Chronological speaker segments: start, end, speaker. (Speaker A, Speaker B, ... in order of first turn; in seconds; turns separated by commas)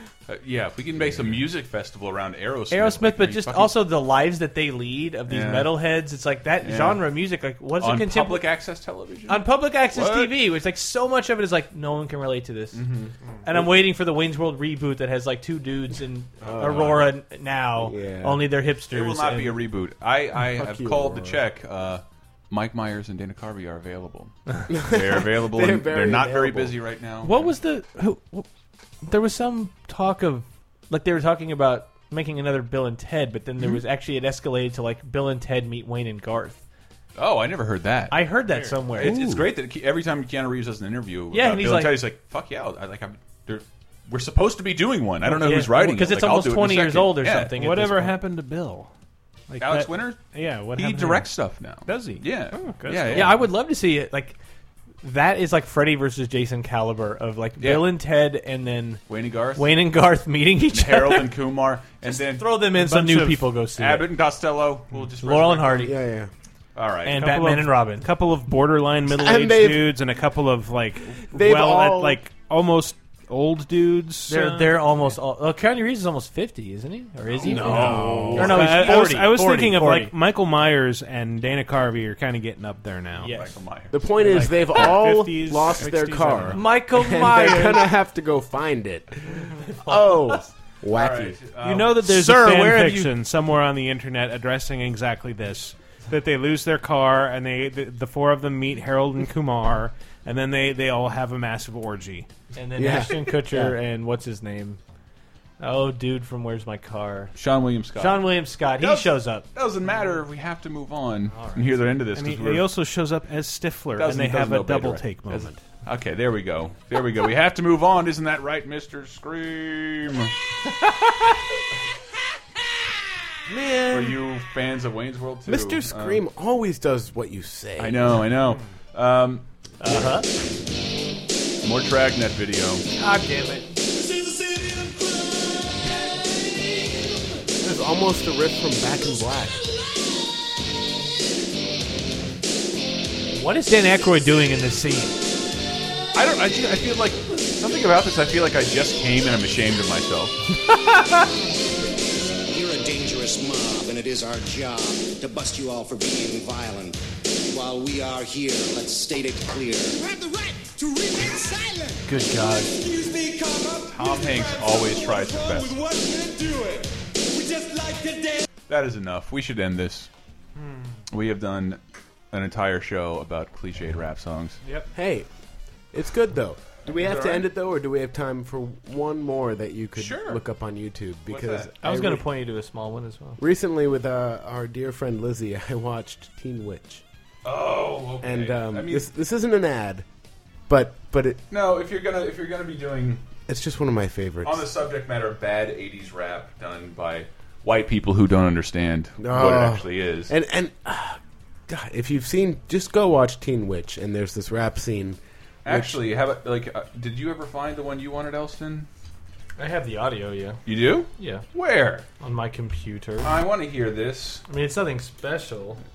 Speaker A: 0.3-3.8, Speaker B: 2.7-8.4, Speaker A: 5.3-5.8, Speaker A: 6.6-7.1, Speaker A: 7.8-10.4, Speaker B: 9.3-12.8, Speaker A: 12.7-13.1, Speaker B: 13.5-19.6, Speaker A: 16.4-17.1, Speaker C: 16.5-16.8, Speaker C: 17.8-18.5, Speaker A: 18.9-27.5, Speaker C: 20.4-21.4, Speaker C: 24.7-26.8, Speaker B: 27.2-28.5, Speaker B: 29.0-36.6, Speaker A: 37.2-38.2, Speaker B: 38.1-39.1, Speaker D: 38.5-38.8, Speaker A: 39.0-47.5, Speaker C: 39.0-39.5, Speaker B: 41.3-42.0, Speaker B: 45.3-48.2, Speaker D: 47.5-48.9, Speaker D: 49.5-51.3, Speaker A: 49.6-53.4, Speaker D: 51.9-53.4, Speaker B: 53.1-54.4, Speaker B: 55.0-61.3, Speaker A: 57.6-57.9, Speaker A: 59.1-59.8, Speaker A: 60.7-62.6, Speaker B: 62.0-64.1, Speaker D: 62.7-63.5, Speaker A: 63.8-65.9, Speaker B: 65.2-66.0, Speaker C: 65.8-66.3, Speaker A: 66.8-67.3, Speaker B: 67.1-68.1, Speaker D: 67.1-75.1, Speaker C: 69.1-69.9, Speaker C: 71.3-72.2, Speaker B: 74.3-80.1, Speaker A: 77.3-78.4, Speaker D: 77.5-83.4, Speaker C: 77.7-78.7, Speaker B: 83.2-83.5, Speaker A: 83.2-83.9, Speaker C: 83.9-91.4, Speaker D: 84.2-86.7, Speaker B: 86.5-87.9, Speaker B: 89.9-90.4, Speaker A: 90.9-92.4, Speaker D: 91.6-102.3, Speaker B: 91.7-93.1, Speaker B: 102.5-104.8, Speaker C: 102.8-103.2, Speaker D: 103.5-103.8, Speaker B: 105.6-107.3, Speaker A: 107.3-112.7, Speaker B: 108.0-109.5, Speaker B: 111.3-111.9, Speaker D: 112.1-115.6, Speaker A: 114.0-120.3, Speaker C: 123.5-124.2, Speaker A: 123.9-126.2, Speaker C: 125.5-128.2, Speaker A: 127.8-129.5, Speaker B: 129.8-130.3, Speaker A: 131.6-132.8, Speaker B: 133.0-133.7, Speaker E: 133.9-137.1, Speaker C: 137.6-139.6, Speaker B: 143.3-145.2, Speaker A: 146.2-150.9, Speaker F: 152.5-160.0, Speaker E: 159.8-168.4, Speaker B: 162.1-162.7, Speaker A: 163.9-165.8, Speaker A: 168.7-170.1, Speaker D: 170.6-171.0, Speaker A: 171.1-171.8, Speaker A: 172.3-174.6, Speaker C: 174.9-175.3, Speaker C: 175.9-182.2, Speaker A: 176.9-177.5, Speaker A: 180.0-180.4, Speaker A: 181.3-181.7, Speaker B: 181.8-183.4, Speaker C: 183.4-187.0, Speaker A: 187.4-189.1, Speaker C: 188.2-190.1, Speaker C: 190.7-191.4, Speaker A: 191.5-193.2, Speaker C: 193.5-194.7, Speaker A: 194.4-200.3, Speaker C: 199.2-206.0, Speaker A: 205.7-208.9, Speaker B: 209.6-210.6, Speaker A: 210.7-212.1, Speaker B: 211.2-211.4, Speaker B: 212.2-213.3, Speaker A: 213.2-214.4, Speaker B: 214.5-215.8